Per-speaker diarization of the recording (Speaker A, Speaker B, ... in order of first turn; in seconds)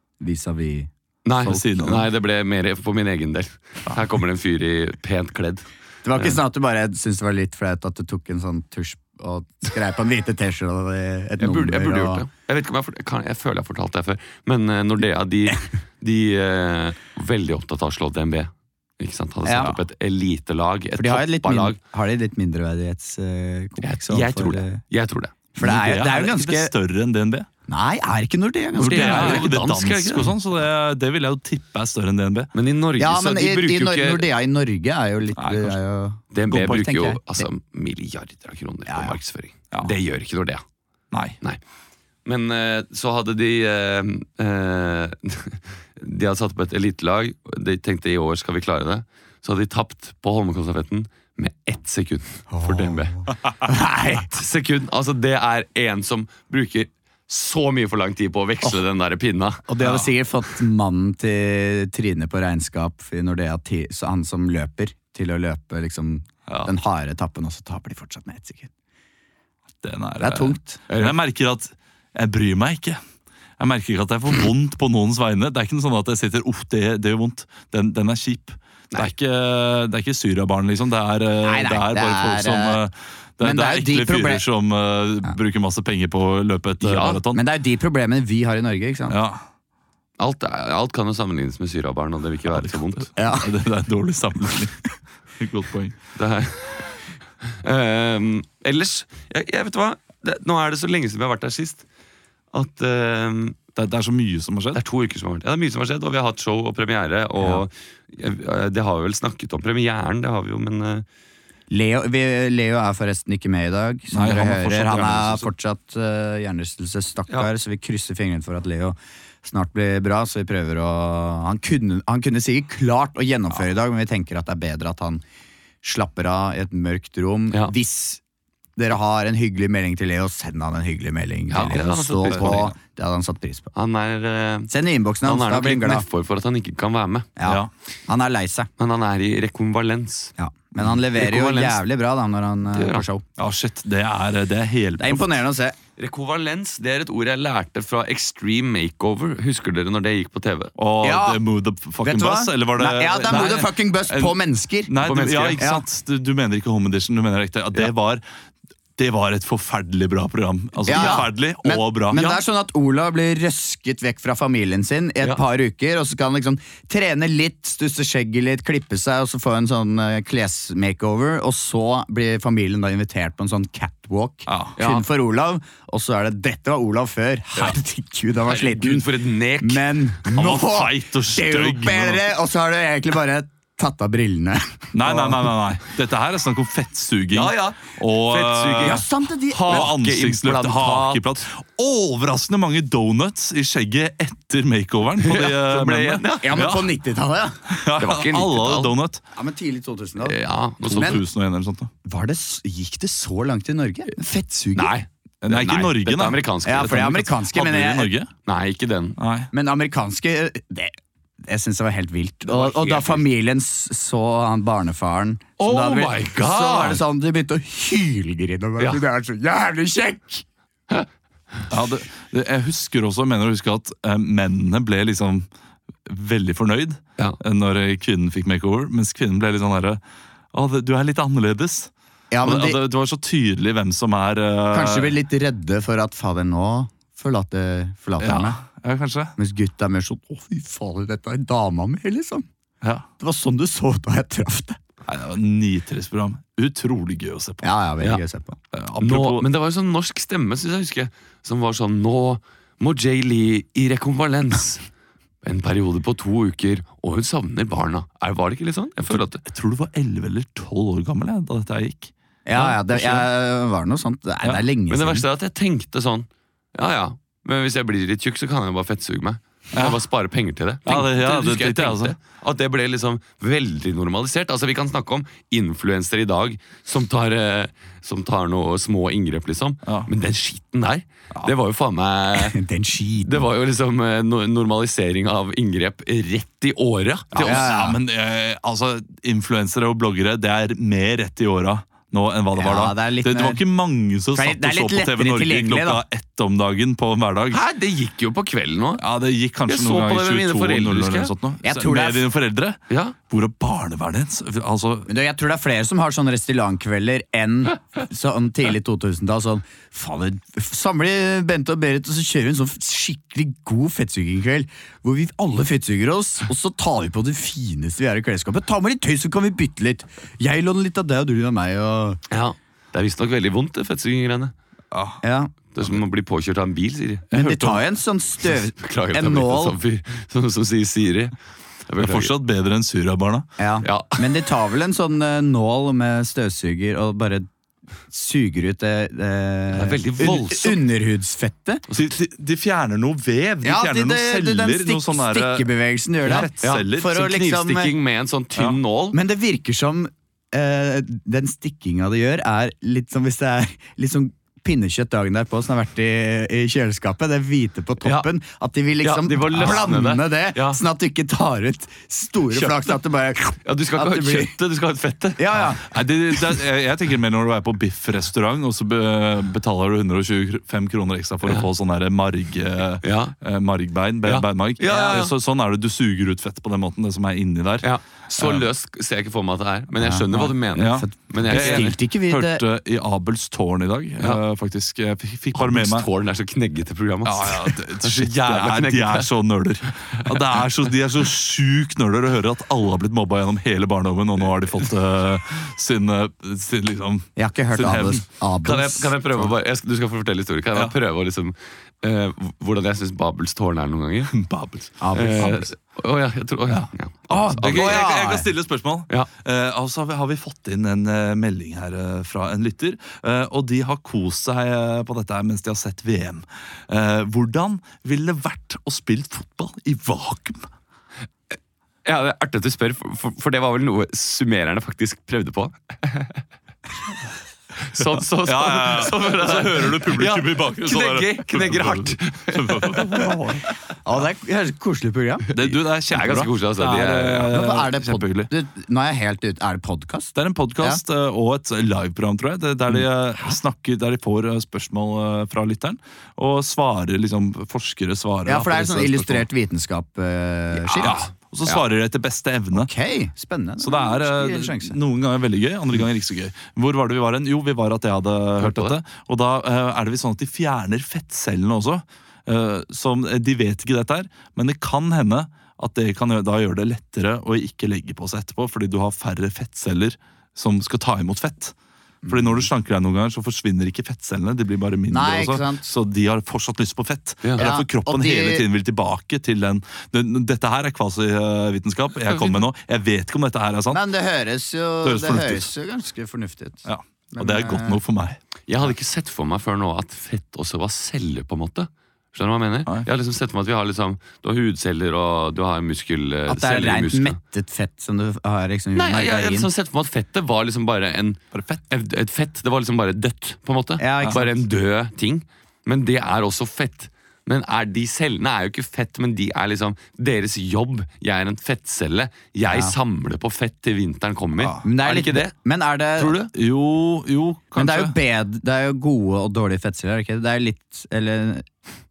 Speaker A: 0.2-1.8, 6.0-12.2, 19.4-19.8, 21.0-24.8, 25.6-26.7, 27.7-29.6, 33.0-37.5, 38.9-39.2, 52.5-54.4, 59.7-68.7, 70.2-70.8, 81.4-82.8, 83.4-84.4, 87.3-89.2, 93.2-93.5, 111.7-125.2, 125.8-128.2, 128.8-133.7, 134.7-136.1, 137.4-138.7, 140.4-143.2, 145.0-145.8, 151.0-151.4, 152.0-154.9, 155.6-155.8, 160.9-185.5, 188.8-189.9, 196.4-197.6, 199.3-200.4, 200.9-201.2, 202.1-204.9, 206.7-208.1, 209.5-220.4, 232.3-232.8, 234.7-238.6, 239.4-242.5, 243.2-244.8, 247.6-248.6, 262.5-265.3, 282.4-283.5, 287.4-288.0, 292.6-293.6, 294.3-296.0, 301.6-302.3, 305.1-322.2, 325.2-325.6, 327.3-329.8, 333.6-337.5, 338.1-341.8, 343.6-347.9, 349.1-364.5, 365.4-365.9, 380.0-380.3, 380.9-382.6, 397.4-399.2, 405.0-405.7, 407.3-408.5, 434.1-435.5, 437.5-441.0, 448.5-451.2, 452.7-455.0, 472.2-472.7, 475.1-475.9, 477.6-478.6, 483.9-488.0, 496.5-499.7, 504.0-504.6, 512.7-513.0, 514.8-516.4, 517.8-521.7
Speaker B: 1.2-5.7, 11.4-21.8, 23.8-25.3, 28.8-30.3, 32.5-34.3, 36.3-40.6, 42.2-53.3, 54.2-59.6, 70.9-71.2, 86.8-87.2, 90.2-93.1, 96.2-96.9, 97.4-101.8, 102.5-103.6, 104.7-111.1, 131.5-132.7, 133.7-134.7, 135.2-137.3, 138.8-140.3, 140.9-141.8, 142.7-143.1, 146.0-150.7, 155.0-155.7, 160.9-161.3, 162.1-162.4, 174.8-175.0, 178.4-180.4, 187.3-191.2, 195.2-196.7, 198.0-198.9, 200.2-201.2, 204.8-207.0, 208.5-209.2, 212.5-213.2, 215.6-217.0, 249.0-254.8, 255.4-259.4, 264.9-282.6, 283.2-287.8, 297.5-299.0, 299.7-301.3, 302.9-303.1, 322.3-324.5, 325.7-327.7, 328.5-331.4, 331.9-332.3, 333.8-334.2, 339.7-340.8, 341.9-342.1, 346.3-349.2, 358.0-358.3, 359.0-360.8, 362.5-362.9, 363.6-365.7, 373.0-373.4, 374.2-375.3, 377.8-382.0, 385.5-389.3, 398.6-404.3, 405.1-408.0, 422.0-426.4, 427.8-433.2, 435.5-437.5, 450.9-451.8, 458.6-459.0, 482.2-482.6, 488.7-497.4, 498.9-515.5, 516.2-516.5
Speaker C: 1.4-2.1, 25.6-27.5, 28.8-32.5, 35.4-35.8, 41.1-41.4, 59.8-60.1, 66.5-66.7, 69.8-73.0, 73.6-87.4, 89.1-89.4, 92.5-96.0, 103.8-104.8, 114.1-115.5, 132.3-132.7, 143.4-145.4, 150.8-158.2, 159.0-162.2, 174.5-174.8, 180.3-182.2, 184.9-189.1, 189.7-196.9, 197.7-199.2, 200.9-201.9, 205.4-208.3, 209.2-209.5, 221.7-225.5, 226.1-230.0, 230.5-231.9, 232.4-235.2, 238.2-239.3, 245.1-247.7, 248.7-249.4, 259.1-263.3, 269.7-270.0, 270.9-272.1, 279.9-280.1, 287.3-297.6, 299.0-305.1, 324.9-325.2, 332.0-333.5, 341.9-345.7, 346.2-347.1, 365.8-378.7, 380.4-386.1, 387.2-398.2, 404.3-405.6, 407.6-420.7, 428.4-433.7, 435.5-438.5, 440.4-449.5, 451.0-452.9, 453.8-471.7, 472.3-484.0, 485.0-485.7, 486.9-488.4, 501.5-501.8, 514.6-514.8, 516.5-518.1